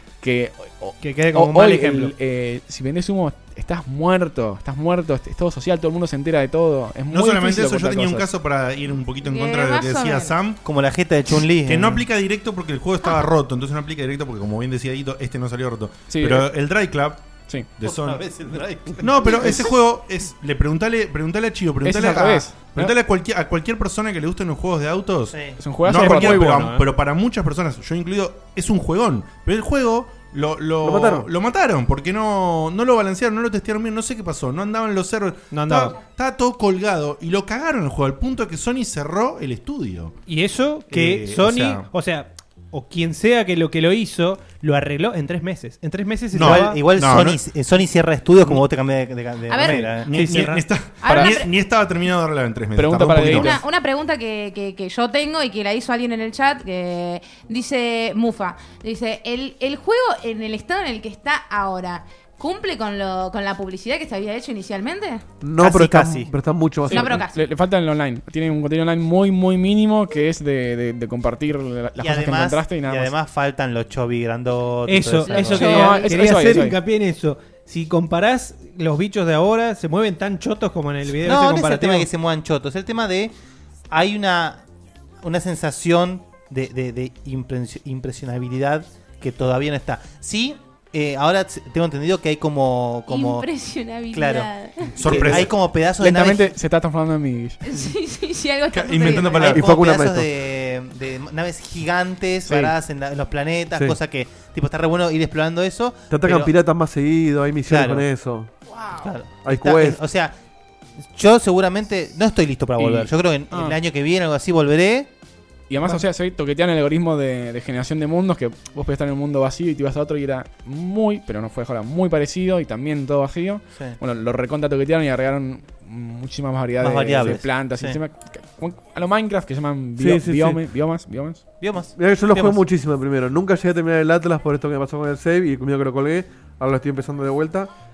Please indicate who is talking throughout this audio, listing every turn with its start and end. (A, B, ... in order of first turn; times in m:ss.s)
0:00.2-0:08.3 A
0:01.0-0:02.1 B
0:07.1-0:10.6 C
0:09.2-0:10.3 D
0:10.6-0:12.0 E
0:11.6-0:17.2 C
0:16.1-0:16.5 A
0:17.8-0:18.3 C
0:17.8-0:19.6 E
0:19.0-0:40.1 C
0:21.8-0:22.9 A
0:25.3-0:25.6 E
0:25.6-0:26.6 A
0:25.9-0:26.8 B
0:30.8-0:31.3 F
0:35.5-0:36.0 B
0:40.2-0:46.9 B
0:40.9-0:41.9 C
0:46.3-0:47.4 C
0:46.4-0:50.1 E
0:49.5-0:49.9 D
0:50.0-0:53.5 C
0:50.0-0:50.6 B
0:51.0-0:51.5 D
0:51.0-0:51.3 A
0:52.8-0:53.6 A
0:53.2-1:05.2 D
1:05.4-1:07.2 F
1:05.6-1:06.3 E
1:06.9-1:13.1 A
1:06.9-1:07.4 D
1:12.0-1:16.0 E
1:14.8-1:22.1 B
1:15.2-1:16.2 D
1:15.4-1:16.8 A
1:21.2-1:23.3 E
1:23.9-1:24.6 E
1:25.2-1:33.5 E
1:33.1-1:35.0 D
1:34.1-1:36.5 E
1:34.9-1:35.5 C
1:36.0-1:37.6 A
1:37.6-1:39.6 D
1:38.7-1:39.6 C
1:39.2-1:46.5 E
1:39.3-1:40.3 F
1:42.5-1:42.7 A
1:46.1-1:48.5 F
1:47.7-1:48.0 E
1:48.8-1:49.1 D
1:49.0-1:50.3 E
1:49.4-1:50.0 F
1:51.1-1:55.1 E
1:52.8-1:53.8 A
1:55.7-2:11.5 A
2:06.8-2:08.0 E
2:10.0-2:10.6 F
2:11.6-2:12.6 E
2:11.9-2:17.7 F